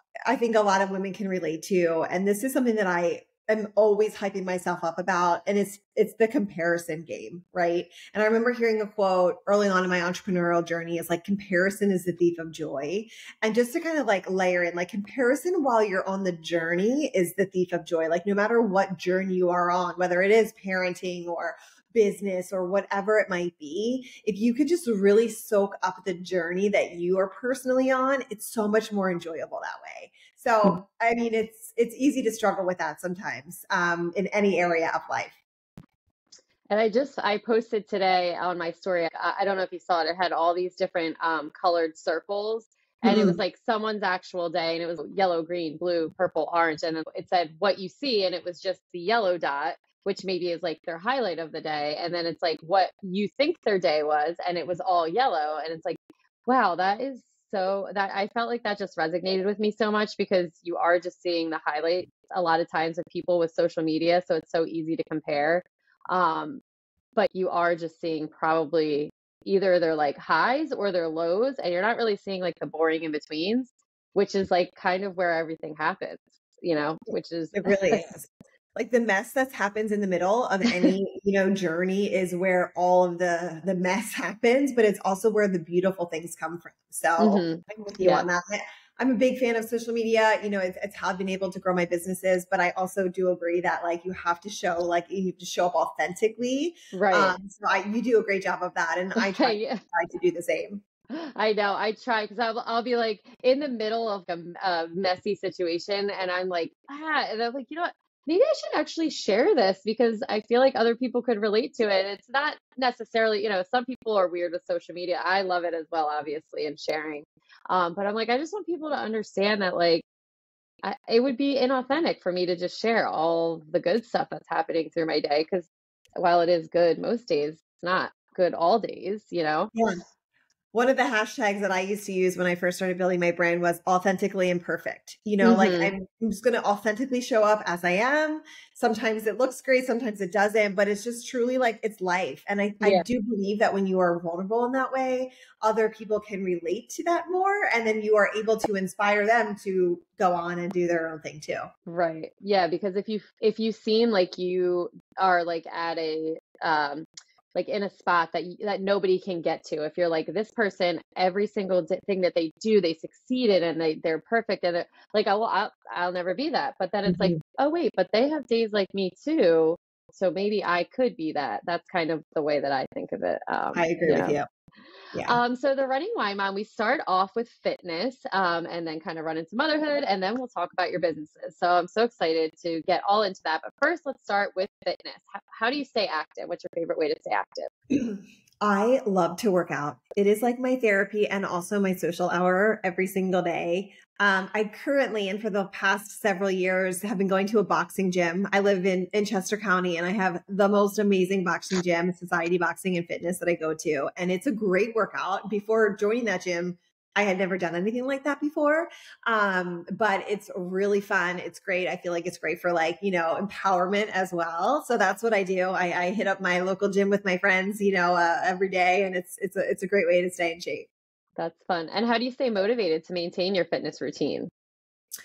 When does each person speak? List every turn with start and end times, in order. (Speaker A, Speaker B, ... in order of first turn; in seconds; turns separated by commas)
Speaker A: 0.3-35.4, Speaker B: 36.7-66.6, Speaker A: 43.0-43.4, Speaker B: 67.2-78.1, Speaker A: 77.5-100.8, Speaker B: 80.7-80.9, Speaker B: 87.2-88.3, Speaker B: 96.9-97.4, Speaker B: 99.2-99.8, Speaker B: 101.1-120.0, Speaker B: 120.8-129.7, Speaker A: 129.7-130.0, Speaker A: 130.7-151.7, Speaker B: 135.4-135.9, Speaker B: 142.8-143.1, Speaker B: 151.9-174.4, Speaker A: 167.1-167.4, Speaker A: 173.8-174.5, Speaker A: 175.1-175.4, Speaker B: 175.3-187.7, Speaker A: 187.9-220.9, Speaker B: 221.4-224.5